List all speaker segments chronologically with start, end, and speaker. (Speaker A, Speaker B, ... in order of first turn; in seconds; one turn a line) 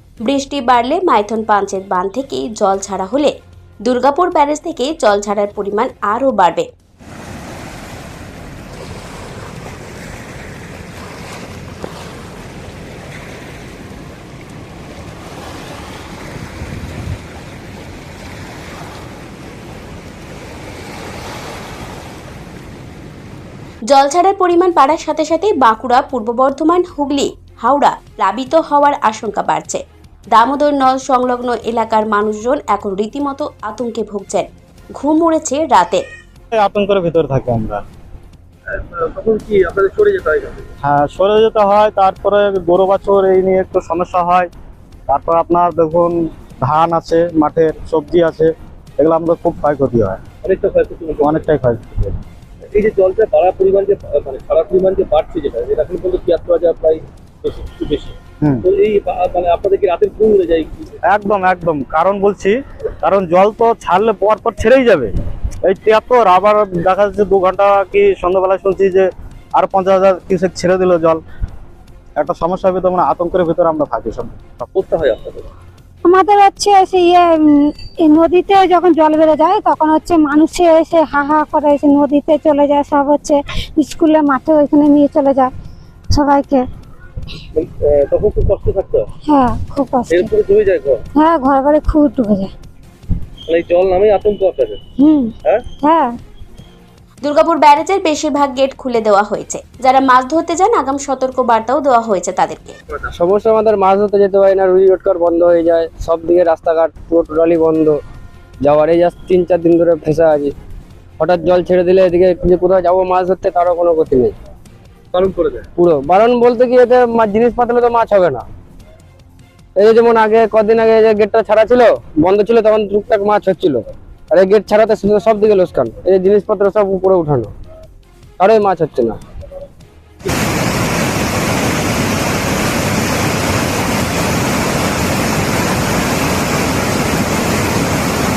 Speaker A: 0.2-3.3
Speaker A: 3.9-6.7
Speaker A: 23.9-36.0
Speaker B: 36.5-37.8
Speaker C: 38.7-40.7
Speaker B: 40.8-44.5
Speaker B: 45.1-50.2
Speaker C: 50.4-51.5
Speaker B: 51.2-52.2
Speaker C: 52.7-61.0
Speaker B: 61.0-71.2
Speaker B: 72.2-74.4
Speaker C: 74.7-75.5
Speaker D: 76.0-85.5
Speaker D: 86.1-86.7
Speaker C: 87.5-89.1
Speaker D: 89.3-90.3
Speaker C: 90.1-91.0
Speaker D: 91.1-92.5
Speaker C: 93.5-94.8
Speaker D: 95.0-96.2
Speaker A: 97.2-102.8
Speaker E: 103.1-108.0
Speaker E: 108.6-110.5
Speaker E: 111.2-114.3
Speaker C: 115.1-115.7
Speaker E: 115.8-118.4
Speaker E: 119.8-127.5
Speaker E: 128.4-129.2